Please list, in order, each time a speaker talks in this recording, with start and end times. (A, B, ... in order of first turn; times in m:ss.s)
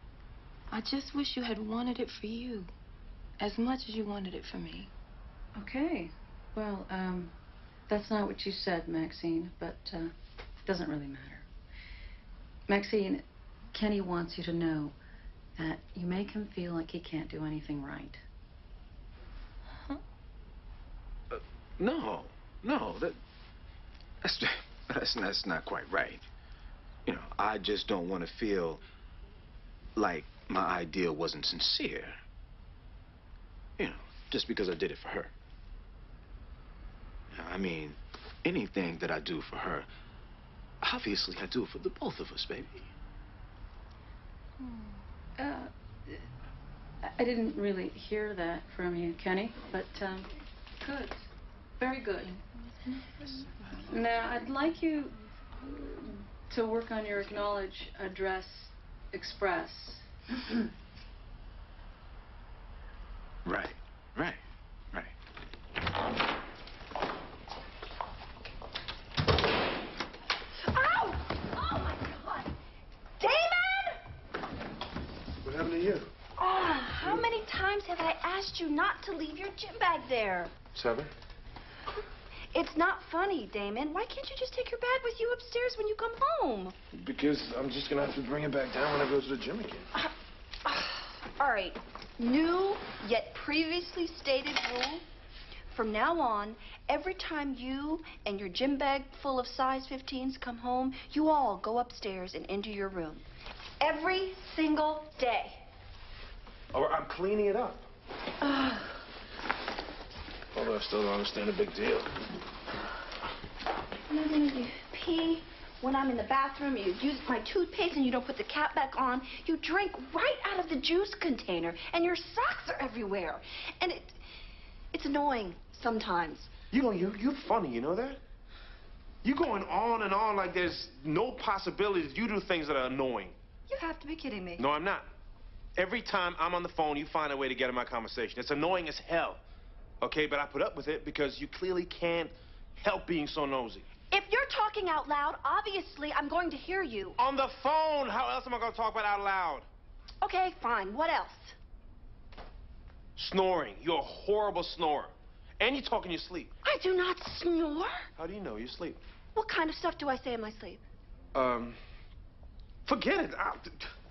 0:00.7-0:02.7 A
0:03.4-0:04.9 A
0:05.6-0:07.3 B
0:07.9-0:10.1 B
0:10.6-0:11.5 B
0:12.7-0:15.0 B
0:15.6-0:18.2 B
0:21.3-0:23.2 C
0:24.2-0:26.3 C
0:27.1-0:28.8 C
0:30.0-0:32.2 C
0:33.8-0:35.3 C
0:37.3-0:39.9 C
0:40.8-0:42.9 C
0:44.6-0:45.0 A
0:45.4-0:46.3 B
0:47.0-0:50.3 B
0:50.8-0:51.2 B
0:51.8-0:52.4 B
0:53.9-1:00.1 B
1:03.4-1:04.4 C
1:10.7-1:12.5 D
1:13.2-1:14.0 D
1:15.4-1:16.1 E
1:16.4-1:20.6 D
1:20.7-1:21.1 E
1:22.5-1:26.8 D
1:26.9-1:29.9 E
1:30.6-1:35.0 D
1:35.7-1:43.2 D
1:43.8-1:45.7 D
1:46.7-1:47.9 E
1:50.5-1:52.2 E
1:54.1-2:04.2 D
2:04.9-2:06.5 D
2:06.7-2:08.2 E
2:09.2-2:13.4 E
2:13.7-2:14.7 D
2:14.6-2:15.1 E
2:15.8-2:19.4 E
2:20.0-2:23.9 E
2:24.1-2:27.2 D
2:27.2-2:29.7 E
2:30.2-2:31.6 D
2:33.2-2:36.6 E
2:36.6-2:38.1 D
2:38.2-2:39.0 E
2:39.4-2:40.8 D
2:41.3-2:41.8 E
2:42.9-2:43.9 E